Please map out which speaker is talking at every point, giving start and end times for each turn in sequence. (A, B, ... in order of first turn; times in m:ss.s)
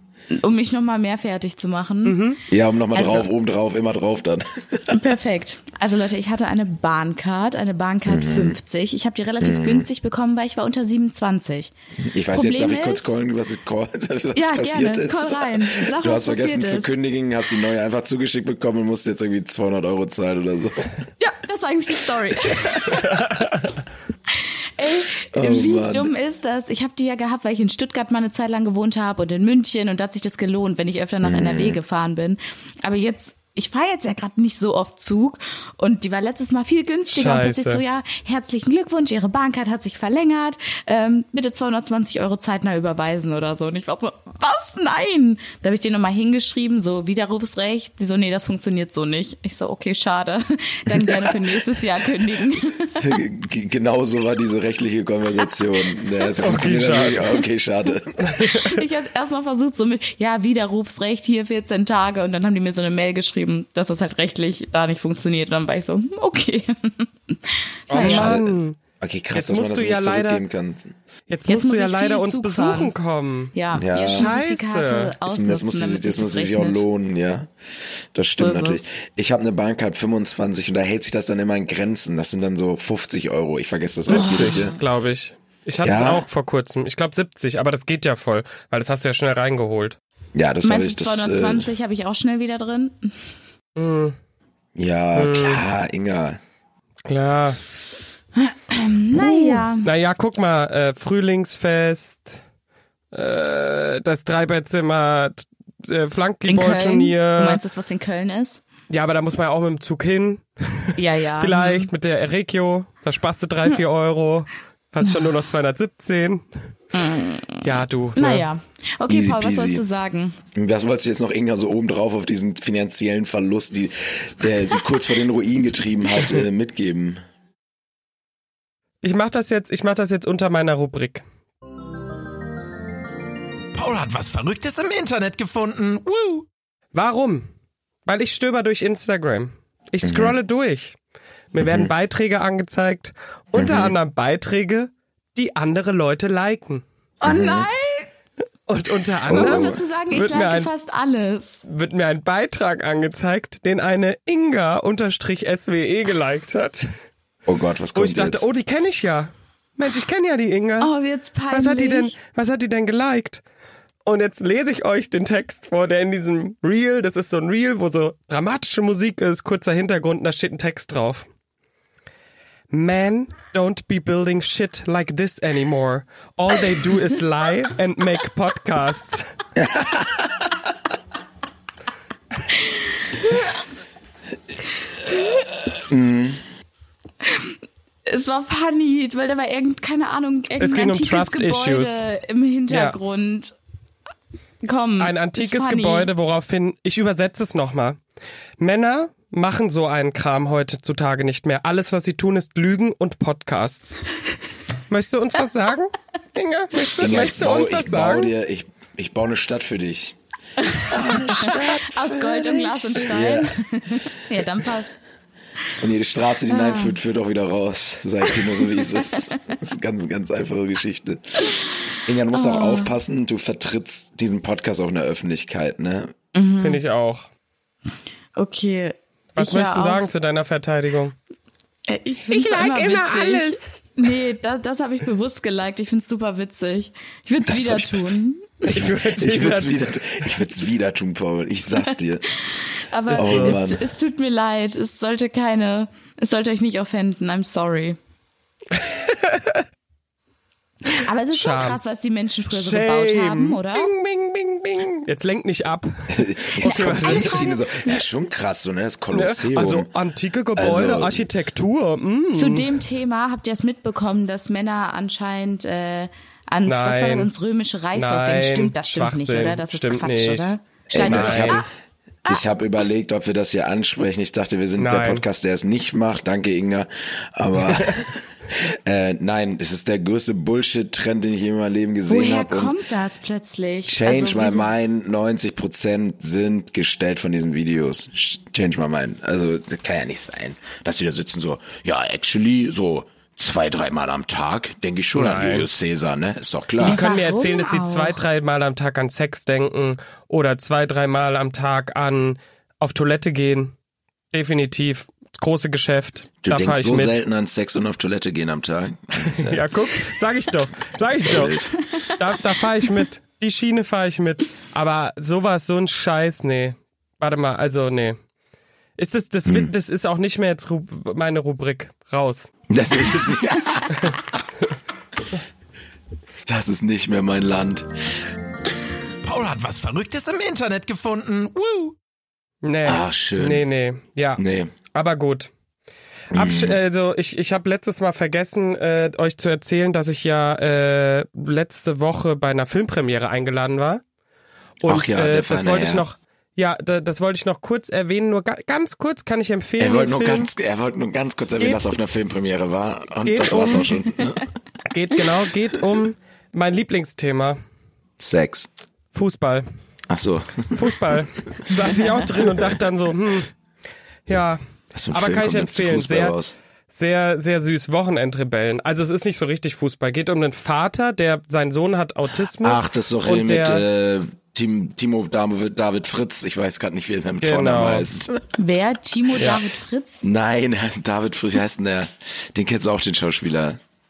0:00.3-0:02.2 A
0:02.0-0:02.4 B
0:02.5-0:05.0 C
0:02.9-0:03.2 A
0:04.9-0:11.7 A
0:08.0-0:08.6 C
0:09.4-0:09.9 C
0:12.0-0:21.0 C
0:12.3-0:13.1 A
0:14.3-0:16.9 A
0:21.2-0:23.2 A
0:24.3-0:53.0 A
0:25.3-0:26.1 C
0:31.2-0:31.8 C
0:37.1-0:37.8 B
0:53.0-0:58.4 C
0:56.4-0:57.3 B
0:58.2-0:58.7 B
0:58.4-1:08.3 A
1:07.9-1:08.8 B
1:07.9-1:10.9 C
1:09.3-1:10.4 B
1:11.3-1:15.1 B
1:11.5-1:12.9 A
1:13.5-1:16.8 A
1:13.7-1:14.3 C
1:15.2-1:24.8 C
1:18.4-1:18.8 A
1:24.1-1:30.0 B
1:24.1-1:24.8 A
1:25.8-1:26.2 C
1:30.3-1:31.7 C
1:30.6-1:33.1 A
1:33.8-1:34.2 B
1:34.8-1:36.4 C
1:35.1-1:35.6 B
1:37.0-1:37.6 B
1:38.4-1:39.9 A
1:39.1-1:42.4 B
1:43.1-1:47.6 B
1:46.5-1:48.6 A
1:48.9-1:56.4 B
1:51.0-1:51.9 A
1:56.9-2:00.4 A
1:57.6-1:58.5 B
1:59.1-1:59.8 C
2:00.5-2:07.2 C
2:09.0-2:11.2 B
2:13.7-2:16.5 D
2:16.9-2:17.5 B
2:18.0-2:21.0 B
2:20.0-2:20.4 C
2:21.5-2:26.8 B
2:21.6-2:21.9 C
2:23.5-2:24.0 C
2:27.2-2:28.1 A
2:27.2-2:27.7 C
2:28.7-2:30.7 B
2:29.3-2:29.8 C
2:29.3-2:31.6 A
2:31.6-2:36.9 B
2:37.4-2:38.4 C
2:37.9-2:40.9 B
2:40.8-2:42.1 A
2:41.5-2:43.4 B
2:44.0-2:51.3 B
2:52.7-2:59.2 B
2:59.6-3:00.5 C
3:02.5-3:03.4 A
3:05.5-3:06.4 C
3:07.2-3:07.5 A
3:08.0-3:13.5 A
3:10.6-3:12.0 B
3:12.7-3:13.0 B
3:14.6-3:16.1 A
3:15.0-3:18.0 B
3:18.6-3:24.0 B
3:24.9-3:28.3 B
3:27.0-3:30.2 C
3:30.6-3:35.0 A
3:30.8-3:33.5 C
3:35.8-3:46.1 C
3:36.5-3:37.0 A
3:38.8-3:39.4 A
3:42.3-3:42.9 A
3:46.3-3:46.8 A
3:46.6-3:47.3 B
3:48.4-3:50.1 A
3:49.3-3:51.1 B
3:51.9-3:58.6 A
3:52.3-3:53.8 B
3:57.4-3:58.2 C
3:58.6-4:00.2 B
3:58.8-4:02.3 C
4:02.5-4:08.0 A
4:03.1-4:03.6 B
4:03.1-4:03.9 C
4:08.7-4:09.6 B
4:10.8-4:13.9 A
4:11.3-4:11.8 B
4:12.5-4:17.5 B
4:16.1-4:19.9 C
4:16.6-4:17.9 A
4:19.1-4:22.8 B
4:20.5-4:21.3 C
4:22.3-4:31.7 A
4:26.6-4:27.3 B
4:27.9-4:31.6 B
4:30.9-4:31.7 C
4:32.3-4:42.8 C
4:34.8-4:35.2 B
4:37.7-4:38.0 B
4:42.1-4:44.7 A
4:43.8-4:57.0 C
4:55.1-4:55.7 B
4:56.8-4:58.2 A
4:56.8-5:03.7 B
5:04.3-5:07.2 B
5:06.4-5:09.7 C
5:09.3-5:18.2 B
5:11.1-5:11.7 C
5:19.0-5:22.5 B
5:19.4-5:19.7 C
5:22.7-5:24.3 C
5:26.4-5:28.2 C
5:29.2-5:32.0 D
5:32.6-5:34.4 B
5:32.8-5:33.6 C
5:34.4-5:34.7 C
5:34.9-5:35.5 B
5:36.3-5:36.8 C
5:36.3-5:44.0 B
5:44.8-5:50.5 B
5:44.8-5:46.0 C
5:49.8-5:54.4 C
5:51.6-5:51.8 B
5:53.2-5:54.0 B
5:54.9-5:57.6 B
5:58.2-5:58.7 C
5:59.1-5:59.6 B
6:00.1-6:01.2 C
6:00.7-6:03.5 B
6:04.3-6:04.6 B
6:04.9-6:06.5 C
6:05.1-6:06.4 B
6:06.9-6:13.8 B
6:12.6-6:18.4 C
6:17.4-6:18.1 B
6:18.6-6:20.3 A
6:20.2-6:23.8 C